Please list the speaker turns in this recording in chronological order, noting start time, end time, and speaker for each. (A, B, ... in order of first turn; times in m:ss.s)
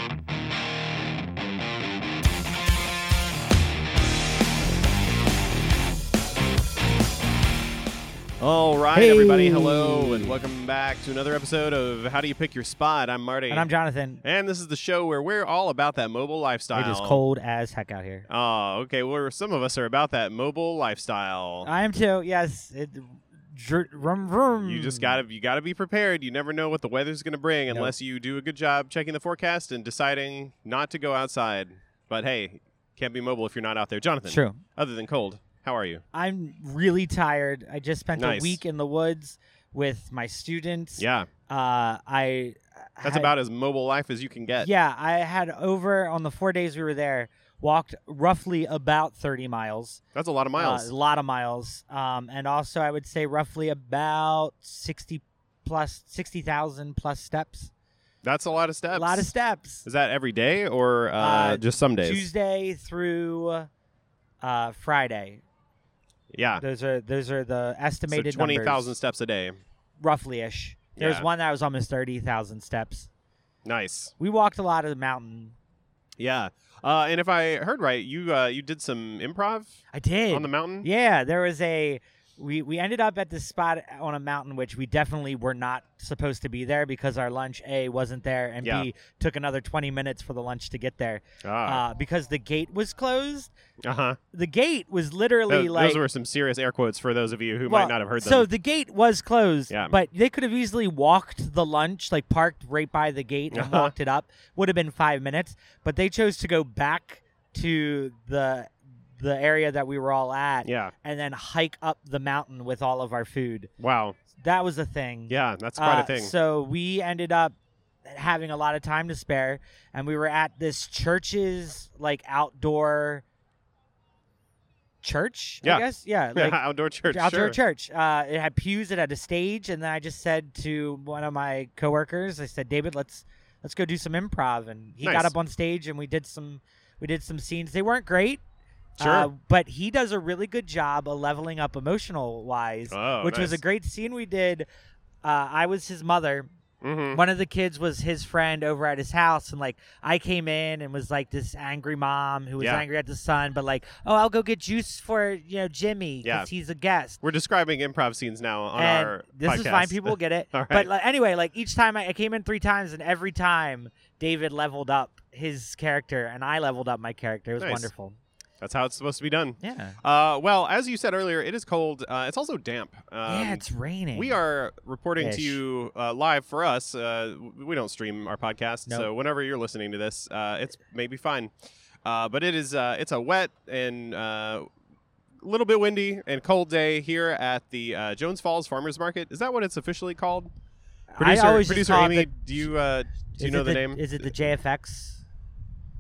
0:08.4-0:13.7 A
0:08.9-0:10.4 B
0:13.5-0:14.2 B
0:14.2-0:17.2 A
0:16.7-0:18.2 B
0:18.3-0:21.7 A
0:21.6-0:25.2 B
0:24.6-0:36.0 A
0:34.2-0:34.6 B
0:36.1-0:43.3 B
0:38.2-0:38.6 A
0:41.0-0:41.3 A
0:43.0-0:44.7 A
0:44.6-0:50.0 B
0:50.2-0:50.9 A
0:50.6-0:57.7 B
0:58.2-0:59.3 A
0:58.9-0:59.9 B
0:59.8-1:02.3 A
1:01.2-1:03.7 B
1:04.4-1:05.4 B
1:06.3-1:06.6 A
1:06.6-1:08.9 B
1:08.1-1:09.6 A
1:10.0-1:13.1 B
1:11.0-1:11.2 A
1:13.6-1:14.1 A
1:14.2-1:15.6 B
1:16.2-1:20.9 A
1:19.9-1:33.5 B
1:28.6-1:28.9 A
1:31.4-1:31.8 A
1:33.8-1:34.2 A
1:34.3-1:36.0 B
1:35.5-1:38.5 A
1:37.7-1:53.7 B
1:39.7-1:39.9 A
1:43.5-1:43.9 A
1:50.6-1:50.9 A
1:53.8-1:54.2 A
1:54.4-2:03.2 B
1:55.3-1:56.3 A
2:05.0-2:18.4 B
2:05.6-2:07.6 A
2:15.0-2:15.3 A
2:19.0-2:24.7 B
2:19.0-2:19.3 A
2:22.9-2:23.6 A
2:25.2-2:26.5 B
2:26.8-2:27.2 A
2:27.1-2:37.2 B
2:32.6-2:32.8 A
2:36.2-2:36.5 A
2:37.2-2:40.9 A
2:38.8-2:48.2 B
2:47.6-2:47.9 A
2:48.6-3:01.5 A
2:49.6-2:50.0 B
2:53.2-2:54.4 B
2:55.2-2:55.6 B
3:02.0-3:04.7 A
3:05.4-3:10.5 A
3:11.1-3:12.7 B
3:11.2-3:14.3 A
3:13.4-3:15.2 B